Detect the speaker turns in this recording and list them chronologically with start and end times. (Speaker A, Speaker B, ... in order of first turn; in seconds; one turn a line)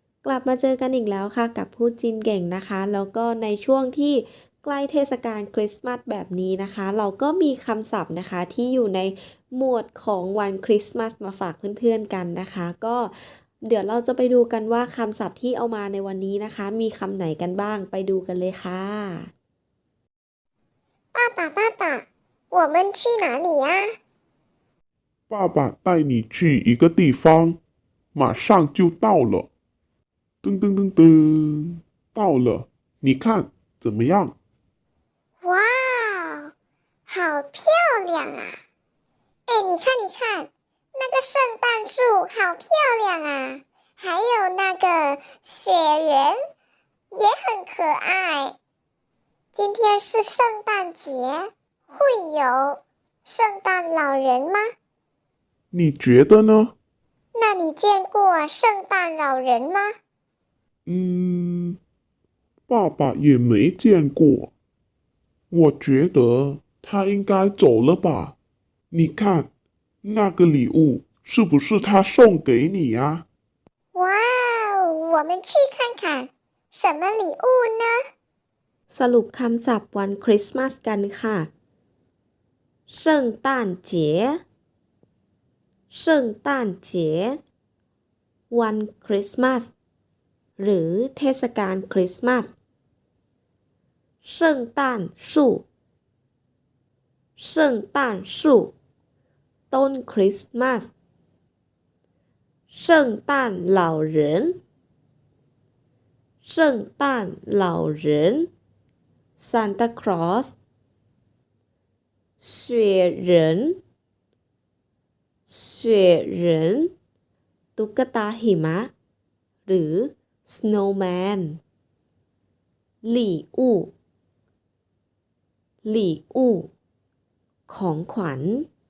Speaker A: 0.2-19.3
Speaker B: 21.1-23.9
Speaker C: 25.3-27.6
Speaker C: 28.1-29.5
Speaker C: 30.4-34.4
Speaker B: 35.4-36.5
Speaker B: 37.1-38.6
Speaker B: 39.5-46.4
Speaker B: 47.1-48.6
Speaker B: 49.5-54.7
Speaker C: 55.7-56.7
Speaker B: 57.4-59.9
Speaker C: 60.9-61.8
Speaker C: 62.7-64.5
Speaker C: 65.5-68.3
Speaker C: 68.9-69.5
Speaker C: 70.0-73.2
Speaker B: 74.0-78.0
Speaker A: 78.9-81.5
Speaker A: 82.9-84.4
Speaker A: 85.9-87.4
Speaker A: 88.5-89.7
Speaker A: 90.6-92.5
Speaker A: 94.2-95.7
Speaker A: 97.4-98.7
Speaker A: 99.7-100.9
Speaker A: 102.7-104.6
Speaker A: 106.4-108.5
Speaker A: 109.4-110.5
Speaker A: 112.4-113.8
Speaker A: 115.5-116.9
Speaker A: 117.8-118.9
Speaker A: 119.7-121.6
Speaker A: 123.0-123.9
Speaker A: 125.8-126.7
Speaker A: 127.7-128.7